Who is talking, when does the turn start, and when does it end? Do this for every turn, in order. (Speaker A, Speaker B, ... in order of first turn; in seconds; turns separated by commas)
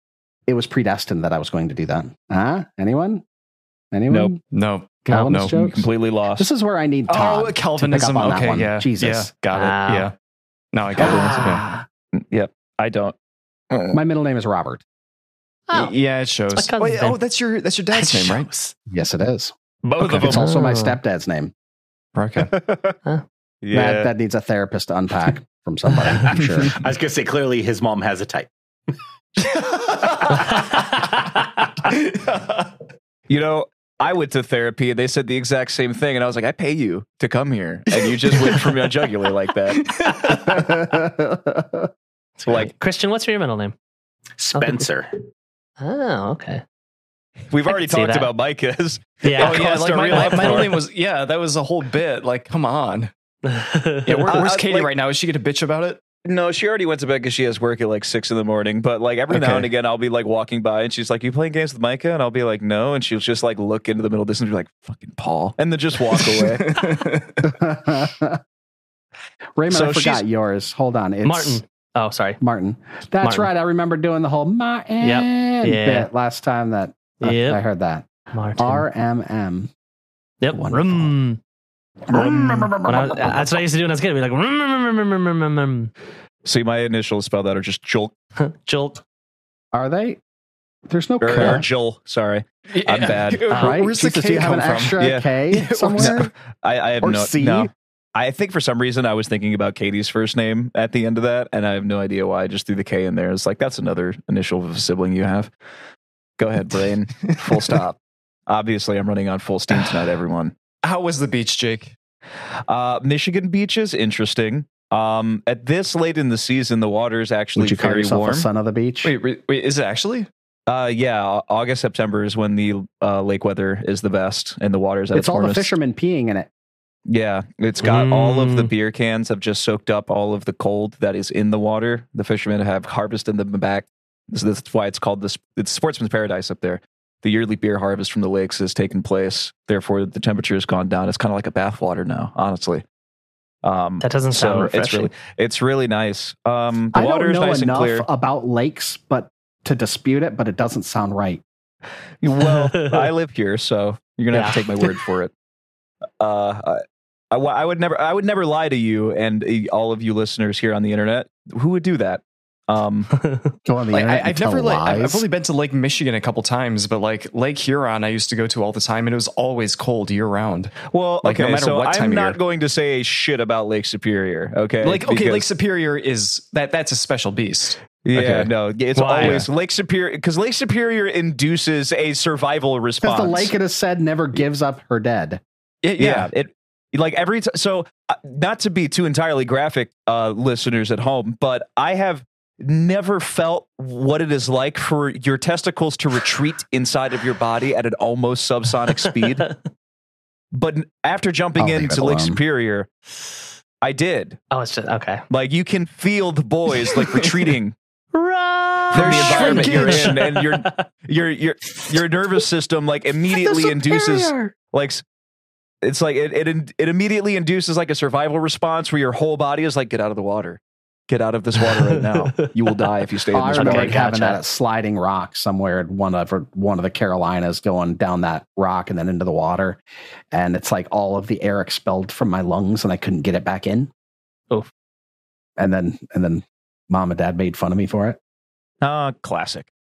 Speaker A: 0.5-3.2, Speaker A: 3.9-4.4, Speaker B: 4.1-4.3, Speaker C: 4.5-5.6, Speaker A: 5.0-9.3, Speaker B: 5.4-6.5, Speaker C: 7.1-10.1, Speaker D: 9.5-10.1, Speaker C: 10.7-11.6, Speaker B: 11.0-11.6, Speaker A: 11.0-11.8, Speaker D: 11.1-11.3, Speaker B: 12.1-13.1, Speaker B: 13.7-14.0, Speaker A: 13.9-14.8, Speaker D: 15.7-15.9, Speaker C: 15.7-18.5, Speaker D: 16.5-17.2, Speaker D: 17.9-18.7, Speaker A: 18.9-19.5, Speaker B: 19.8-20.4, Speaker A: 20.1-21.5, Speaker D: 20.2-21.0, Speaker C: 22.1-22.5, Speaker B: 22.4-22.9, Speaker B: 23.6-24.1, Speaker A: 23.7-26.7, Speaker E: 26.7-28.5, Speaker C: 29.5-30.3, Speaker B: 30.1-30.5, Speaker D: 30.5-31.7, Speaker C: 31.9-32.4, Speaker B: 33.3-39.9, Speaker C: 38.0-38.9, Speaker C: 39.7-40.6, Speaker A: 40.3-41.9, Speaker D: 42.4-43.7, Speaker E: 44.4-45.1, Speaker D: 44.5-44.8, Speaker D: 45.8-46.6, Speaker B: 47.5-50.8, Speaker D: 47.7-48.3, Speaker D: 49.2-49.6, Speaker C: 49.4-53.1, Speaker D: 50.1-50.8, Speaker D: 53.4-54.4, Speaker C: 54.1-56.0, Speaker B: 54.3-54.9, Speaker B: 56.2-66.7, Speaker C: 59.3-59.7, Speaker C: 66.2-67.4, Speaker A: 67.4-68.4, Speaker A: 69.6-71.6, Speaker B: 69.7-70.2, Speaker D: 71.2-72.4, Speaker A: 72.4-78.1, Speaker D: 73.2-73.5, Speaker D: 75.0-76.1, Speaker D: 77.2-77.6, Speaker D: 78.3-78.8, Speaker A: 78.6-79.7, Speaker D: 80.4-81.4, Speaker A: 80.5-81.1, Speaker A: 82.1-83.4, Speaker D: 82.8-85.9, Speaker B: 86.4-88.1, Speaker D: 88.4-89.0, Speaker A: 89.7-90.2, Speaker A: 90.9-91.7, Speaker B: 91.2-93.7, Speaker C: 92.7-95.0, Speaker A: 93.5-96.3, Speaker B: 95.0-95.3, Speaker C: 95.5-96.3, Speaker B: 95.9-105.5, Speaker A: 97.0-97.7, Speaker B: 106.4-110.5, Speaker C: 107.1-107.8, Speaker C: 110.8-111.9, Speaker B: 112.7-118.5, Speaker A: 117.5-119.1, Speaker C: 119.0-120.3, Speaker B: 120.7-125.7, Speaker A: 125.1-126.5, Speaker B: 127.1-142.8, Speaker D: 127.8-128.7, Speaker B: 143.6-148.1, Speaker D: 144.0-145.1, Speaker A: 146.9-151.4, Speaker B: 152.2-155.3, Speaker D: 152.7-153.0, Speaker D: 154.3-154.7, Speaker B: 156.2-163.1, Speaker D: 163.1-163.5, Speaker A: 163.7-165.2, Speaker C: 163.9-172.4, Speaker B: 170.9-175.4, Speaker C: 174.8-178.5, Speaker B: 178.0-183.5, Speaker D: 178.9-179.4, Speaker C: 179.2-179.5, Speaker A: 183.0-185.4, Speaker C: 185.8-186.3, Speaker B: 186.0-199.5, Speaker D: 199.1-199.5, Speaker B: 200.5-202.9, Speaker A: 201.6-202.4, Speaker B: 203.8-204.4, Speaker D: 204.5-205.2, Speaker B: 205.3-207.7, Speaker D: 208.1-210.8, Speaker C: 208.9-210.2, Speaker B: 208.9-215.0, Speaker B: 215.8-223.9, Speaker D: 221.7-222.5, Speaker A: 223.3-229.8, Speaker D: 223.5-224.4, Speaker A: 230.3-233.9, Speaker A: 235.6-238.2, Speaker B: 238.8-239.7